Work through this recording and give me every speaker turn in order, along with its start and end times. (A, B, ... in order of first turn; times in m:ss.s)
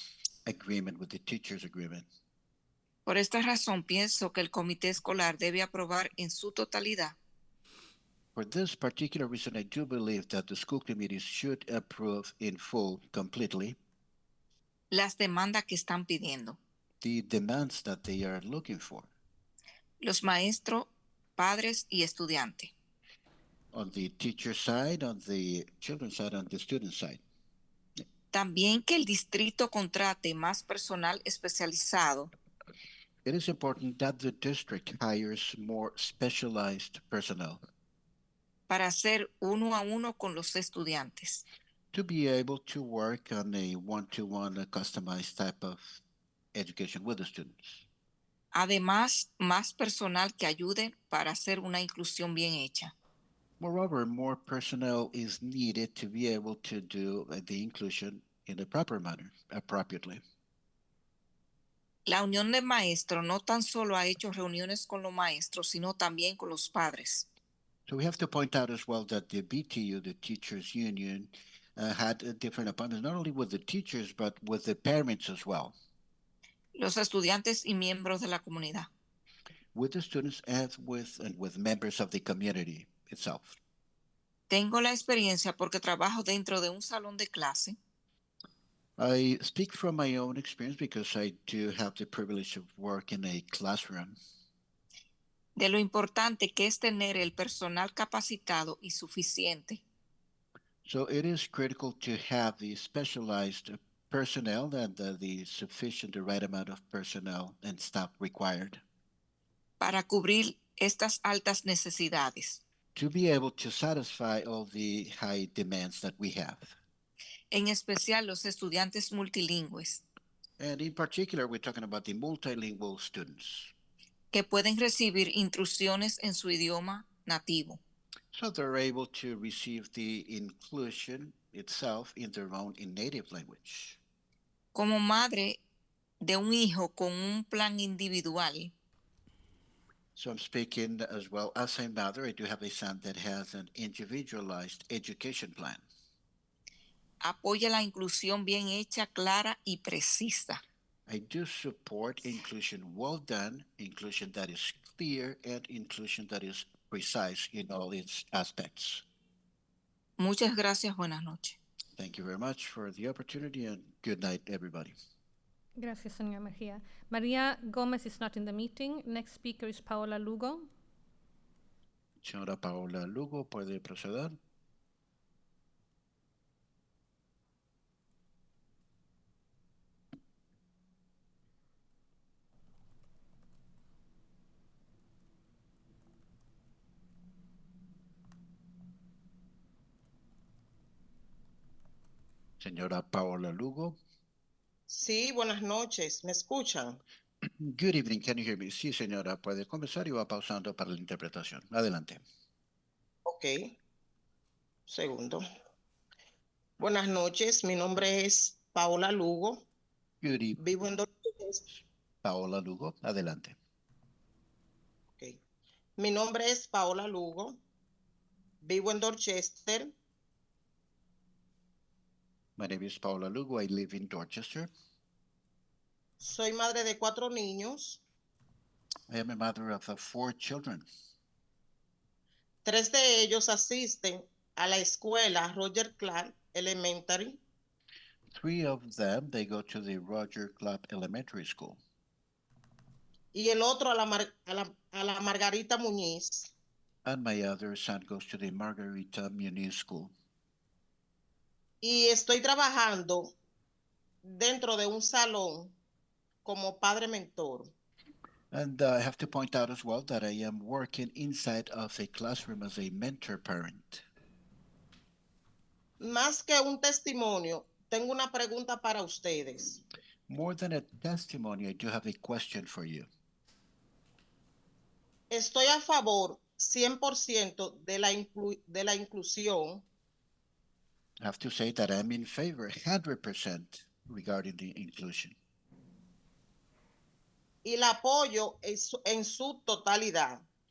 0:00.4-0:02.1 A
0:03.0-0:07.2 B
0:08.3-0:13.8 A
0:14.9-0:16.6 B
0:17.0-0:19.1 A
0:20.0-0:22.7 B
0:23.7-0:27.2 A
0:28.3-0:32.3 B
0:33.2-0:37.6 A
0:38.7-0:41.4 B
0:41.9-0:46.0 A
0:46.5-0:47.8 A
0:48.5-0:52.9 B
0:53.6-1:00.2 A
1:02.1-1:07.2 B
1:07.9-1:15.7 A
1:16.7-1:18.9 B
1:19.7-1:23.6 A
1:24.5-1:27.8 B
1:29.0-1:34.2 A
1:35.6-1:39.8 B
1:40.8-1:48.8 A
1:49.8-1:52.6 B
1:52.9-1:56.7 A
1:57.5-2:00.0 B
2:00.6-2:03.7 A
2:04.3-2:07.8 B
2:08.3-2:14.0 A
2:14.7-2:15.6 B
2:16.2-2:18.7 B
2:20.2-2:25.8 A
2:27.2-2:30.6 B
2:31.1-2:39.0 A
2:40.2-2:41.6 B
2:42.0-2:44.9 A
2:45.8-2:50.7 C
2:52.2-2:54.4 A
3:12.6-3:14.0 A
3:14.9-3:17.0 D
3:17.6-3:22.2 A
3:23.3-3:23.6 D
3:24.9-3:25.4 D
3:26.8-3:29.7 D
3:30.2-3:30.6 A
3:30.6-3:31.6 D
3:32.2-3:33.6 A
3:36.0-3:37.6 D
3:38.6-3:39.9 D
3:42.6-3:44.7 A
3:46.2-3:48.0 D
3:49.1-3:50.9 A
3:52.6-3:57.4 D
3:58.3-4:01.8 A
4:03.3-4:06.5 D
4:07.0-4:10.1 A
4:11.8-4:13.3 D
4:14.2-4:15.7 D
4:16.4-4:17.7 D
4:18.5-4:24.0 A
4:26.0-4:29.8 D
4:30.3-4:33.1 A
4:35.3-4:39.8 D
4:41.2-4:45.3 A
4:47.6-4:50.4 D